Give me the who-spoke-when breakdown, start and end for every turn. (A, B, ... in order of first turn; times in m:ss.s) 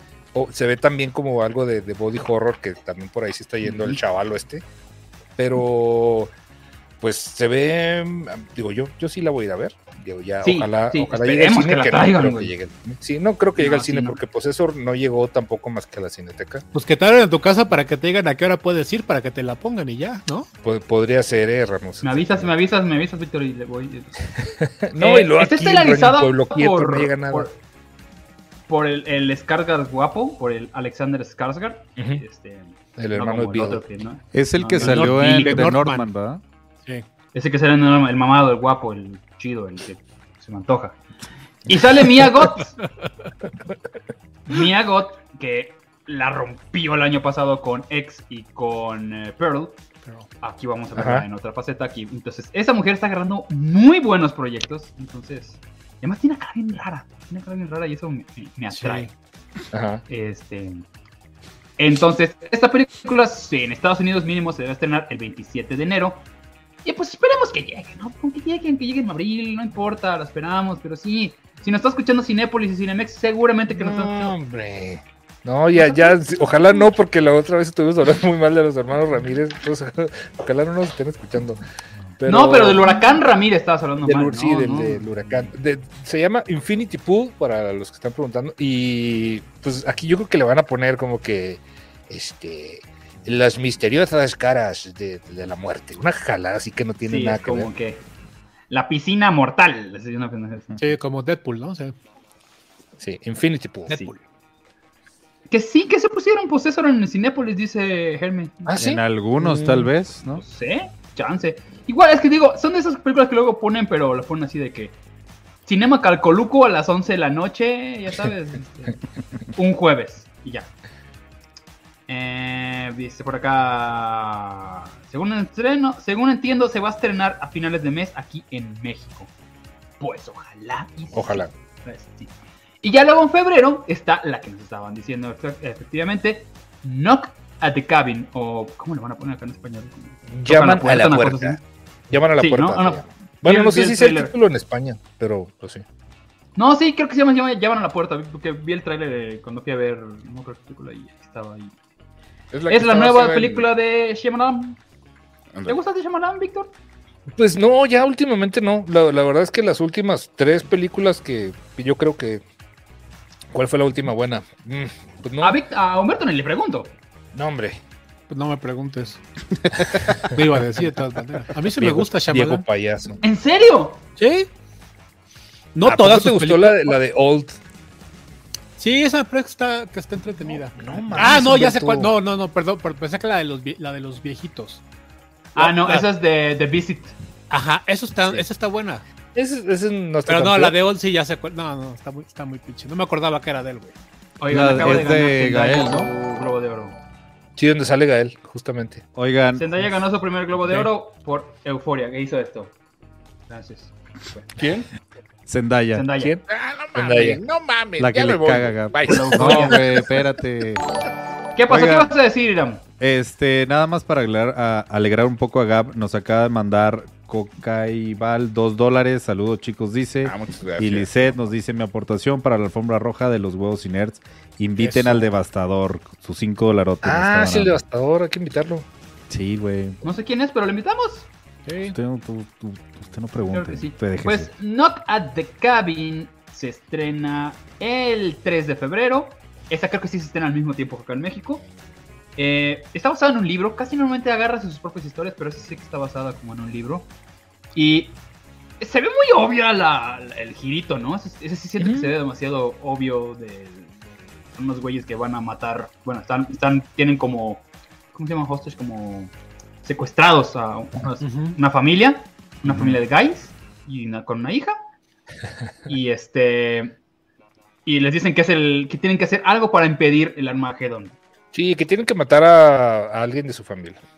0:00.3-0:04.6 A
0:03.6-0:04.0 B
0:05.4-0:06.3 A
0:07.0-0:16.6 A
0:10.4-0:12.5 B
0:13.6-0:14.2 B
0:16.7-0:20.5 C
0:20.6-0:22.5 A
0:22.0-0:24.2 B
0:24.4-0:27.5 A
0:25.0-0:27.6 B
0:28.7-0:35.8 B
0:32.0-0:32.2 A
0:33.0-0:33.8 A
0:34.3-0:36.4 D
0:34.7-0:36.1 C
0:37.3-0:41.0 B
0:41.6-0:42.8 B
0:44.5-0:49.8 B
0:50.4-0:59.1 B
0:50.9-0:51.2 A
0:58.7-0:59.1 C
0:59.7-1:00.0 A
1:00.1-1:00.8 B
1:01.8-1:06.2 B
1:06.8-1:14.3 B
1:13.7-1:21.6 A
1:15.7-1:16.7 B
1:22.2-1:23.0 A
1:22.3-1:25.1 B
1:24.0-1:37.7 A
1:37.0-1:38.0 B
1:38.7-1:40.8 B
1:40.8-1:41.9 C
1:43.0-1:44.0 A
1:43.9-1:44.2 C
1:45.5-1:48.7 B
1:48.6-1:49.9 A
1:48.8-1:50.4 D
1:50.3-1:55.0 B
1:55.6-1:59.0 B
1:59.5-2:00.7 B
2:02.1-2:09.3 B
2:10.0-2:21.6 B
2:11.1-2:11.5 A
2:20.3-2:25.8 A
2:22.4-2:24.3 B
2:26.6-2:31.8 B
2:32.5-2:33.7 E
2:32.7-2:34.8 B
2:35.5-2:35.8 E
2:35.7-2:36.7 B
2:37.3-2:42.4 A
2:43.5-2:45.6 A
2:45.4-2:46.9 B
2:47.3-2:47.8 A
2:48.3-2:49.2 C
2:49.6-2:50.0 D
2:50.2-2:52.6 C
2:51.8-2:53.2 A
2:53.2-2:54.0 B
2:54.2-2:54.5 C
2:55.7-2:56.9 C
2:55.8-2:57.6 A
2:58.8-3:04.8 C
3:00.7-3:02.1 A
3:05.5-3:07.1 B
3:05.6-3:06.1 C
3:07.5-3:09.0 C
3:09.3-3:10.8 A
3:10.3-3:14.0 C
3:14.4-3:17.0 B
3:14.5-3:16.1 D
3:17.6-3:19.0 A
3:19.1-3:19.9 D
3:19.5-3:22.7 B
3:23.5-3:24.6 B
3:25.4-3:26.1 D
3:25.9-3:26.4 B
3:26.2-3:26.4 A
3:26.5-3:29.8 E
3:26.9-3:27.4 A
3:28.0-3:30.8 D
3:29.0-3:29.8 B
3:31.5-3:32.8 B
3:31.7-3:32.1 D
3:33.0-3:47.8 D
3:40.2-3:41.4 E
3:44.8-3:45.3 C
3:47.0-3:48.9 A
3:49.3-3:50.0 D
3:50.0-3:51.3 B
3:51.6-3:52.0 C
3:51.8-3:54.5 D
3:53.5-4:01.6 B
4:02.4-4:07.1 B
4:07.7-4:08.2 B
4:08.8-4:13.9 B
4:11.8-4:12.1 A
4:14.5-4:19.3 B
4:19.8-4:24.8 B
4:21.2-4:21.6 C
4:25.9-4:26.9 B
4:27.8-4:31.2 B
4:31.5-4:34.0 A